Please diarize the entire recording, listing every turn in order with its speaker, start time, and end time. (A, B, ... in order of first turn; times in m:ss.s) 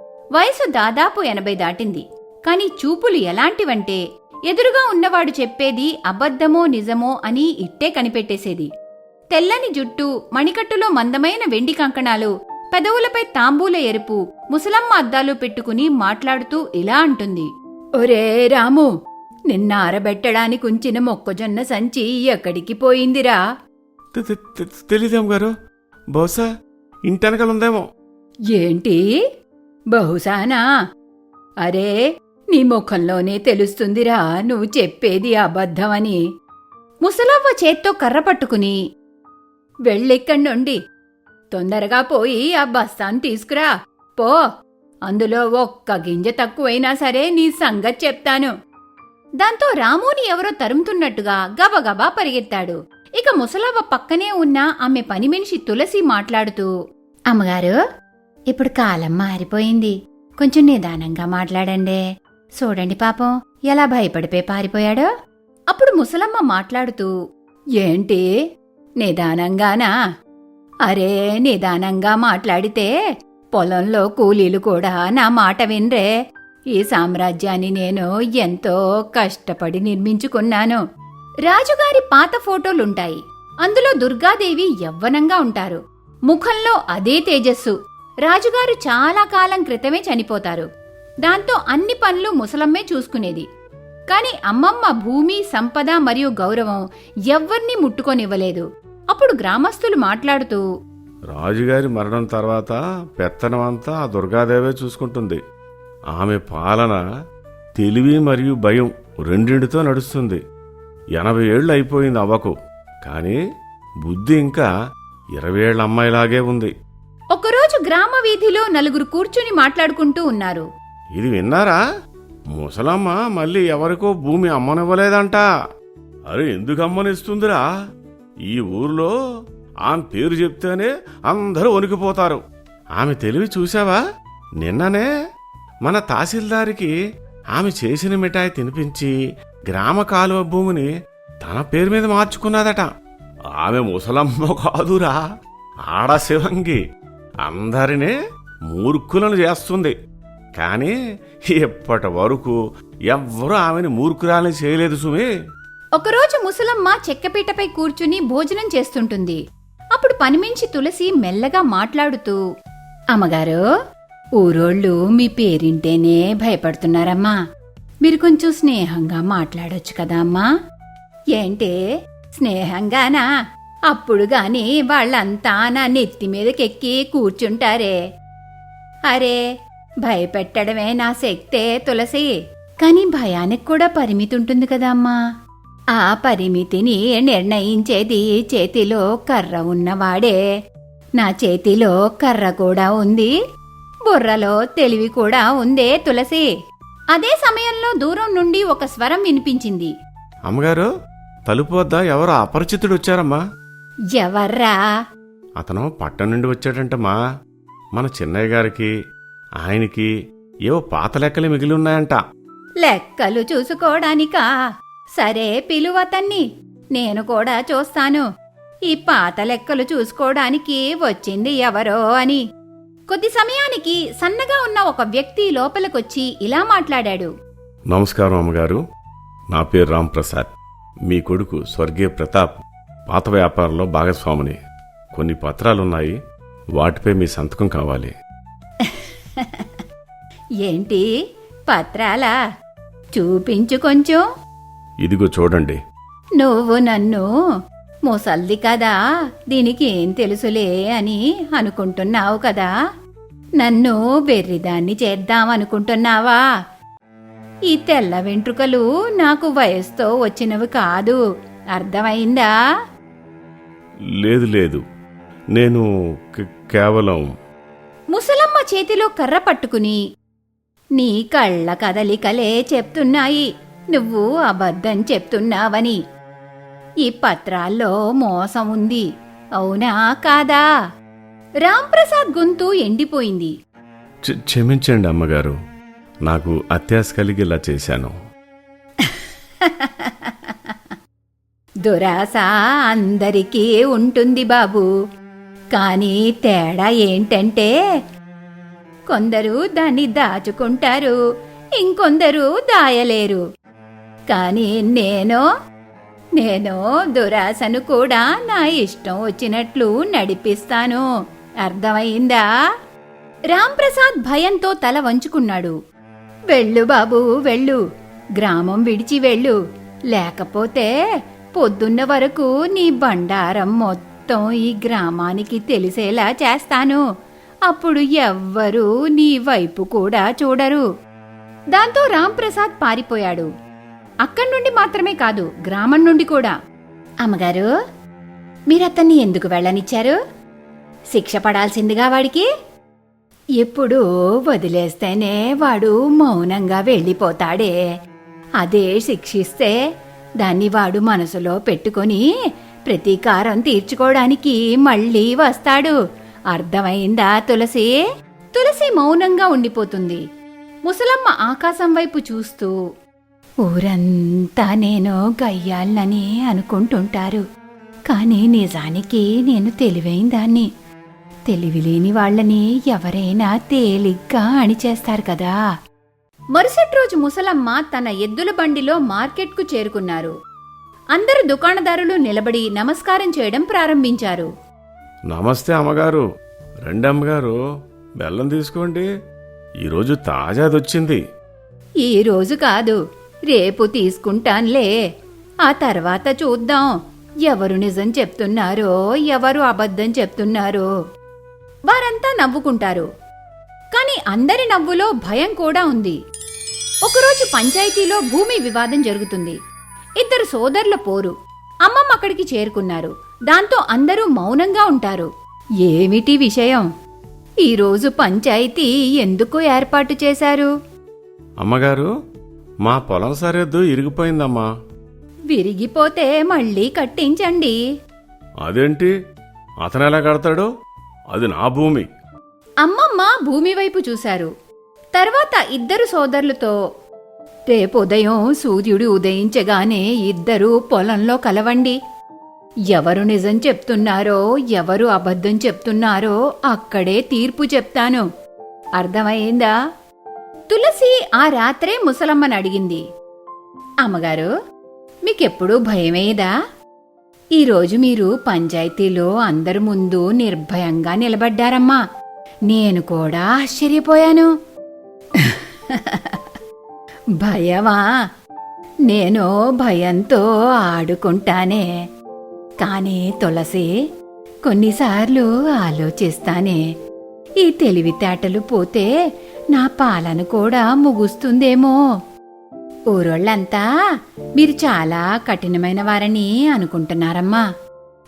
0:00.4-0:08.7 A
0:09.3-0:18.9 A
0:19.5-0:23.4 A
0:24.1-0:25.5 B
0:26.1-0:26.4 B
0:27.1-0:27.8 B
0:28.5-0:29.0 A
0:29.9-0:30.6 A
0:31.6-0:31.9 A
0:32.5-0:36.2 A
0:37.0-0:38.8 A
0:39.9-0:40.8 A
0:41.5-0:44.4 A
0:45.1-0:48.5 A
0:49.4-0:56.7 A
0:57.3-0:57.8 A
0:58.5-1:02.0 A
1:02.6-1:05.1 A
1:05.7-1:07.1 A
1:07.8-1:08.3 A
1:09.0-1:09.9 A
1:10.9-1:12.9 A
1:13.5-1:16.1 A
1:16.8-1:20.8 A
1:21.5-1:27.7 A
1:28.2-1:30.7 A
1:31.2-1:33.4 A
1:34.1-1:40.6 A
1:41.3-1:45.4 B
1:46.1-1:47.0 B
1:47.8-1:50.4 B
1:51.2-1:52.5 B
1:53.0-1:53.4 B
1:54.0-1:54.7 B
1:55.4-1:56.7 B
1:57.3-2:00.7 A
2:01.2-2:01.8 B
2:02.6-2:05.4 B
2:06.3-2:07.6 B
2:08.5-2:09.1 B
2:09.9-2:12.4 B
2:13.0-2:14.0 B
2:14.6-2:15.1 B
2:15.8-2:16.9 B
2:17.5-2:19.1 B
2:19.7-2:20.9 B
2:21.4-2:22.9 B
2:23.5-2:25.2 B
2:25.9-2:26.8 B
2:27.4-2:28.1 B
2:28.7-2:29.9 B
2:30.6-2:30.9 B
2:31.5-2:32.6 B
2:33.1-2:35.3 B
2:36.0-2:39.4 A
2:39.9-2:42.4 A
2:43.1-2:43.6 A
2:44.4-2:47.4 A
2:48.0-2:50.5 A
2:51.4-2:51.7 A
2:52.3-2:53.2 A
2:53.9-2:58.0 A
2:59.1-2:59.4 A
3:00.0-3:02.3 A
3:02.8-3:05.2 A
3:06.0-3:10.4 A
3:11.2-3:13.3 A
3:14.1-3:16.4 A
3:17.1-3:19.9 A
3:20.5-3:20.9 B
3:21.5-3:23.4 B
3:24.2-3:24.8 A
3:25.6-3:27.2 B
3:28.0-3:28.9 B
3:29.6-3:30.1 B
3:30.7-3:32.2 B
3:32.8-3:34.5 A
3:35.2-3:38.2 A
3:38.9-3:42.4 A
3:43.1-3:47.3 A
3:47.9-3:48.8 B
3:49.5-3:50.5 B
3:51.1-3:52.5 B
3:53.1-3:54.6 B
3:55.1-3:56.2 B
3:56.8-3:58.1 B
3:58.8-3:59.8 A
4:00.6-4:01.0 A
4:01.7-4:02.3 A
4:03.2-4:04.2 A
4:05.0-4:05.8 B
4:06.4-4:07.3 A
4:08.1-4:08.9 A
4:09.5-4:12.7 A
4:13.6-4:16.4 A
4:17.7-4:21.2 A
4:21.7-4:22.5 A
4:24.2-4:24.8 B
4:25.6-4:27.2 B
4:28.1-4:30.0 A
4:31.0-4:36.0 A
4:37.0-4:39.0 A
4:39.6-4:40.6 A
4:41.6-4:43.5 A
4:44.3-4:45.6 B
4:46.3-4:48.1 B
4:49.0-4:51.0 A
4:51.8-4:54.9 A
4:55.7-4:57.7 A
4:59.1-5:01.2 A
5:01.8-5:03.4 A
5:04.3-5:05.4 A
5:06.4-5:11.0 A
5:11.6-5:12.4 A
5:13.5-5:15.7 A
5:16.5-5:17.8 A
5:18.4-5:19.6 A
5:20.1-5:20.9 A
5:21.6-5:27.0 A
5:27.7-5:30.8 A
5:31.7-5:33.5 A
5:34.2-5:36.5 A
5:37.2-5:37.7 A
5:38.7-5:40.2 A
5:41.1-5:42.5 A
5:43.6-5:47.7 A
5:48.6-5:49.7 A
5:50.4-5:52.2 A
5:52.9-5:56.0 A
5:56.5-5:57.9 A
5:58.5-6:00.2 A
6:00.9-6:02.7 A
6:03.6-6:07.4 A
6:08.1-6:10.7 A
6:11.5-6:15.6 A
6:16.5-6:20.3 A
6:21.1-6:24.5 A
6:25.3-6:26.2 B
6:26.8-6:27.6 B
6:28.2-6:29.1 B
6:29.8-6:31.2 B
6:32.0-6:33.0 A
6:33.5-6:34.9 A
6:35.6-6:36.9 A
6:37.4-6:40.9 A
6:41.9-6:43.1 A
6:43.9-6:46.2 A
6:47.0-6:49.6 A
6:50.2-6:51.3 A
6:51.8-6:55.3 A
6:55.8-6:56.8 A
6:57.6-7:00.7 A
7:01.6-7:02.1 B
7:02.8-7:04.7 B
7:05.5-7:07.8 A
7:08.6-7:09.1 B
7:09.8-7:10.7 B
7:11.3-7:12.1 B
7:12.8-7:14.5 A
7:15.1-7:16.7 A
7:17.7-7:22.0 A
7:22.9-7:28.2 A
7:29.0-7:29.7 A
7:30.7-7:33.0 A
7:34.0-7:34.5 A
7:35.3-7:36.5 A
7:37.6-7:42.0 A
7:42.7-7:44.5 A
7:45.4-7:46.5 A
7:47.4-7:48.0 A
7:49.1-7:51.8 A
7:52.8-7:53.9 A
7:54.7-7:56.8 A
7:57.6-7:59.1 A
7:59.7-8:02.0 A
8:03.1-8:03.8 A
8:04.6-8:07.6 A